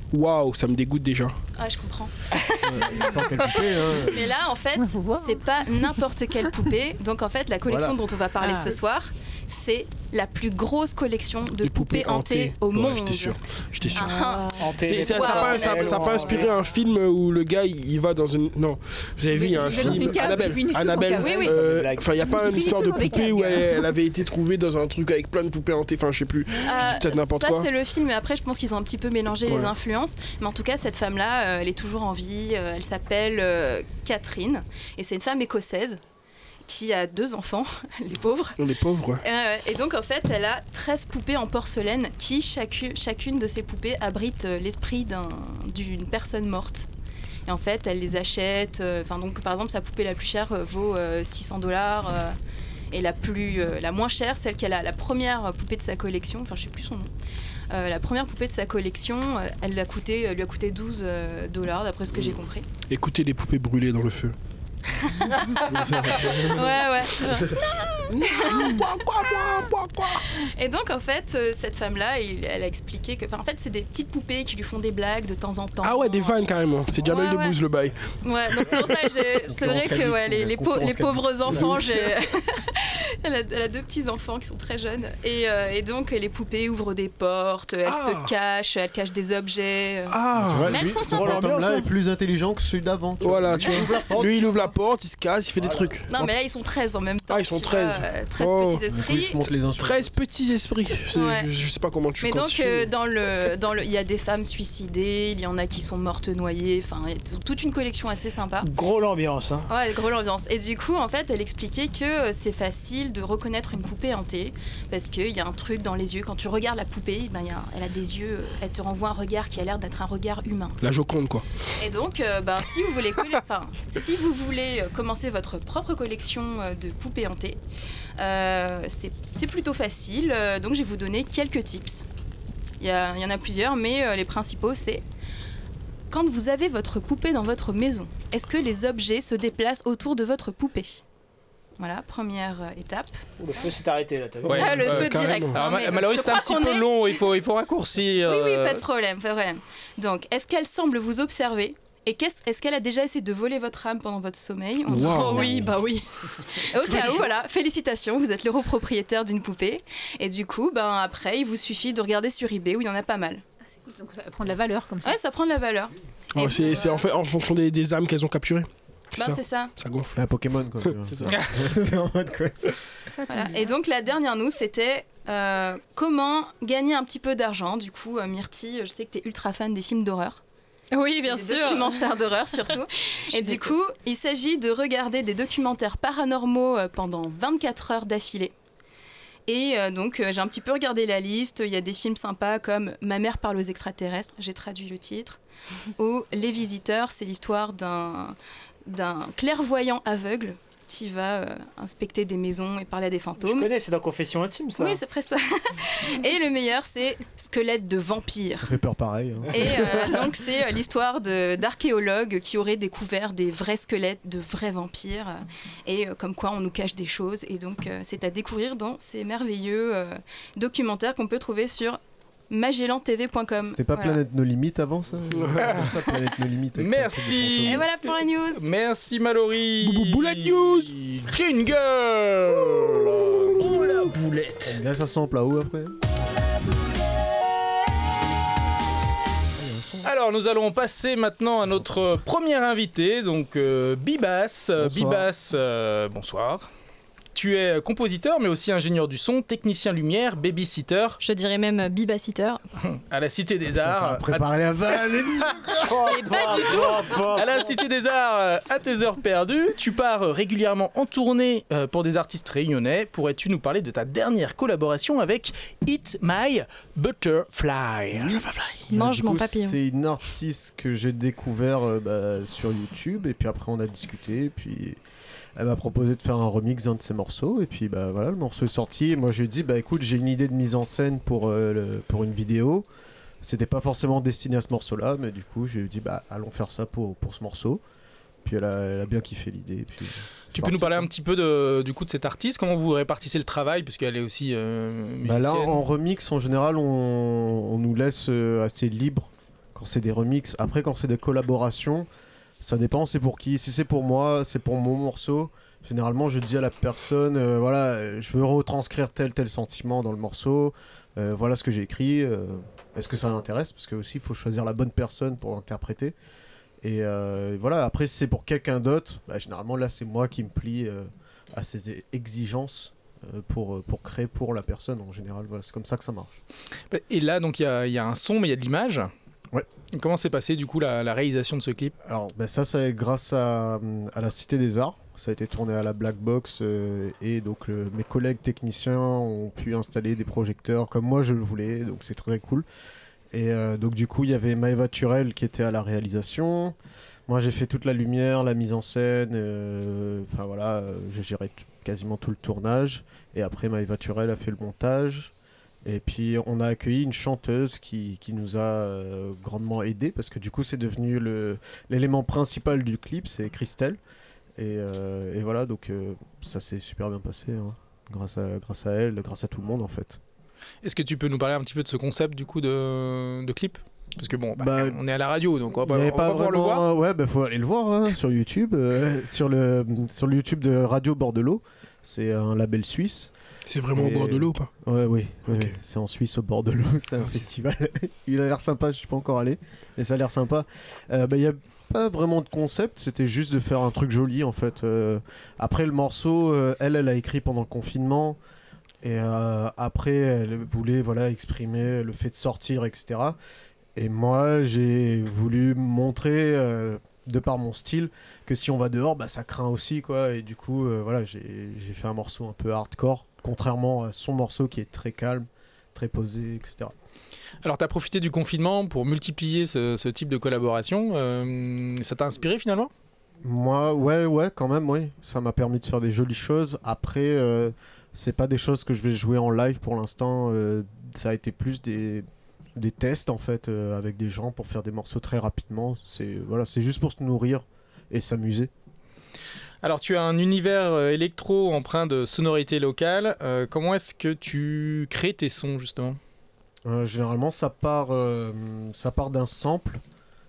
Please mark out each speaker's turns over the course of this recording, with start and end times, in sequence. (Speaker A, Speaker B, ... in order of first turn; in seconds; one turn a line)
Speaker A: 0.1-1.3
Speaker B: 1.6-13.4
Speaker C: 2.6-4.3
Speaker D: 4.8-6.0
Speaker C: 7.7-8.0
Speaker D: 8.4-8.8
Speaker A: 11.6-14.2
Speaker B: 13.9-16.5
Speaker E: 14.0-14.4
Speaker F: 14.6-16.6
Speaker A: 14.8-27.7
Speaker D: 19.3-21.6
Speaker F: 19.7-20.1
Speaker B: 21.2-21.5
Speaker F: 21.4-22.3
Speaker D: 22.2-23.9
Speaker B: 26.6-36.0
Speaker A: 29.5-29.7
Speaker B: 36.7-38.7
Speaker A: 38.6-39.2
Speaker B: 39.2-46.9
Speaker B: 47.5-52.4
Speaker B: 52.9-57.1
Speaker B: 57.7-62.7
Speaker A: 62.9-64.3
Speaker B: 65.0-68.9
Speaker A: 65.6-70.3
Speaker B: 70.4-76.4
Speaker A: 75.8-78.0
Speaker B: 77.0-77.6
Speaker B: 78.2-90.2
Speaker C: 79.5-82.1
Speaker A: 87.8-88.3
Speaker A: 90.1-90.8
Speaker C: 90.3-94.7
Speaker B: 90.7-91.6
Speaker F: 91.0-91.9
Speaker A: 93.2-96.3
Speaker C: 95.6-95.9
Speaker B: 96.1-99.4
Speaker A: 97.3-98.8
Speaker C: 98.9-100.1
Speaker A: 99.6-102.9
Speaker B: 101.1-101.5
Speaker B: 102.2-108.7
Speaker F: 108.6-109.7
Speaker B: 109.7-120.8
Speaker A: 120.8-121.5
Speaker B: 121.8-127.6
Speaker B: 128.2-132.1
Speaker B: 132.8-135.0
Speaker B: 136.1-141.0
Speaker B: 141.8-143.2
Speaker F: 143.4-144.9
Speaker G: 144.4-148.8
Speaker A: 144.5-145.6
Speaker B: 144.6-147.3
Speaker B: 148.2-155.7
Speaker A: 154.9-155.6
Speaker E: 155.0-156.1
Speaker B: 156.5-163.4
Speaker D: 163.7-165.2
Speaker B: 165.0-166.9
Speaker A: 166.3-170.2
Speaker B: 169.2-169.7
Speaker C: 170.2-172.8
Speaker A: 170.9-171.4
Speaker D: 173.2-173.7
Speaker B: 173.3-180.4
Speaker E: 180.9-182.0
Speaker B: 181.3-188.5
Speaker E: 183.4-183.7
Speaker B: 189.5-195.4
Speaker B: 196.0-203.7
Speaker F: 203.4-205.0
Speaker B: 204.8-208.7
Speaker C: 208.6-210.2
Speaker B: 209.5-224.2
Speaker C: 223.7-227.9
Speaker A: 225.4-225.8
Speaker G: 226.8-227.9
Speaker B: 227.7-228.7
Speaker G: 228.5-234.8
Speaker A: 229.8-230.9
Speaker C: 234.7-236.0
Speaker C: 239.6-240.1
Speaker G: 240.0-246.7
Speaker C: 244.8-245.3
Speaker G: 247.3-251.2
Speaker E: 251.2-252.6
Speaker G: 252.8-254.5
Speaker C: 253.7-256.0
Speaker F: 255.8-257.7
Speaker E: 256.1-257.0
Speaker G: 257.3-268.8
Speaker C: 268.9-275.0
Speaker E: 268.9-269.8
Speaker C: 275.6-282.9
Speaker C: 283.4-287.8
Speaker C: 288.4-291.1
Speaker G: 290.5-295.8
Speaker C: 295.2-302.1
Speaker C: 302.6-316.1
Speaker C: 316.8-326.4
Speaker G: 326.9-329.1
Speaker G: 329.9-331.9
Speaker C: 332.0-342.7
Speaker C: 343.3-346.8
Speaker C: 347.3-355.3
Speaker C: 355.8-364.0
Speaker C: 364.6-370.2
Speaker G: 370.8-376.9
Speaker C: 374.6-375.0
Speaker C: 375.9-383.3
Speaker A: 383.7-384.7
Speaker C: 383.9-398.4
Speaker C: 399.0-403.4
Speaker C: 404.0-416.9
Speaker G: 417.6-422.9
Speaker C: 423.4-438.7
Speaker G: 439.8-446.2
Speaker C: 446.9-450.0